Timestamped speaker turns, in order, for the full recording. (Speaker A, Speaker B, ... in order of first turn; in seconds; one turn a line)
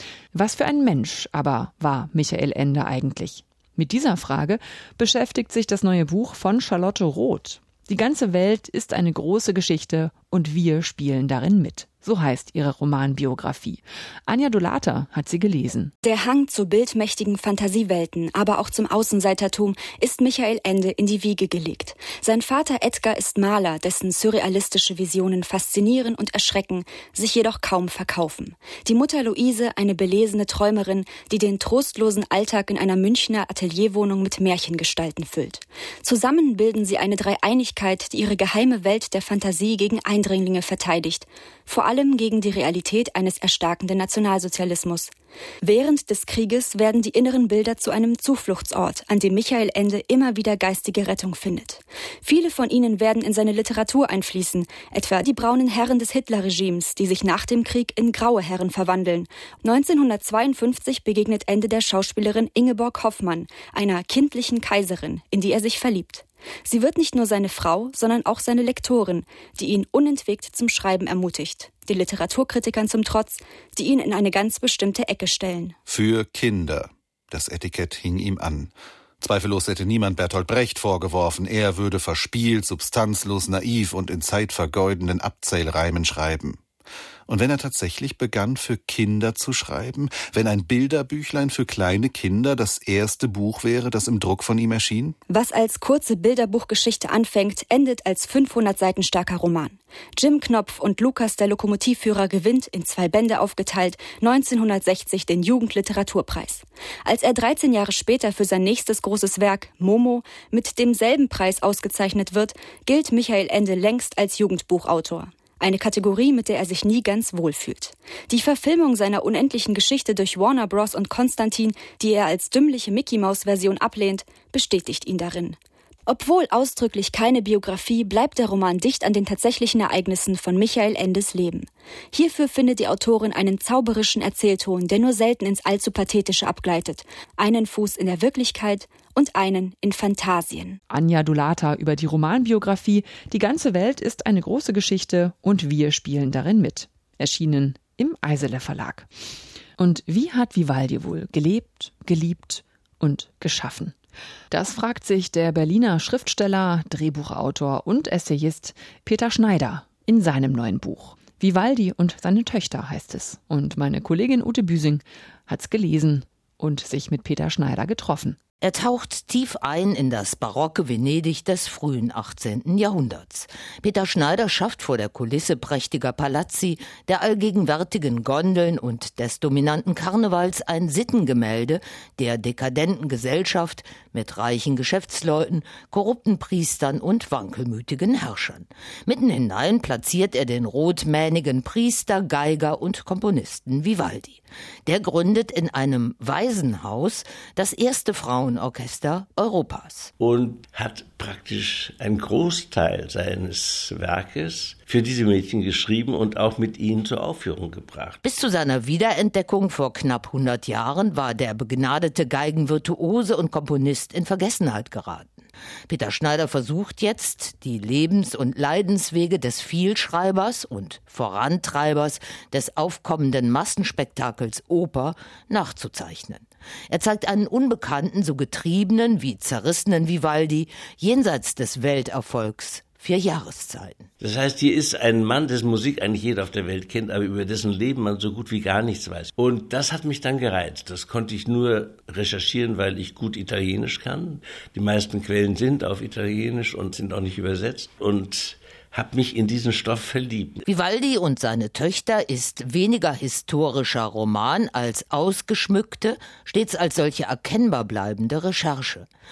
Speaker A: 0.3-15.9
Speaker B: 16.0-45.1
Speaker B: 45.6-75.7
Speaker C: 75.8-86.6
Speaker C: 87.3-95.2
Speaker B: 95.3-140.8
Speaker A: 140.9-149.1
Speaker A: 149.8-153.9
Speaker A: 154.5-168.4
Speaker D: 168.6-200.1
Speaker E: 200.2-208.2
Speaker D: 208.2-234.1
Speaker E: 234.2-250.6
Speaker D: 250.7-259.1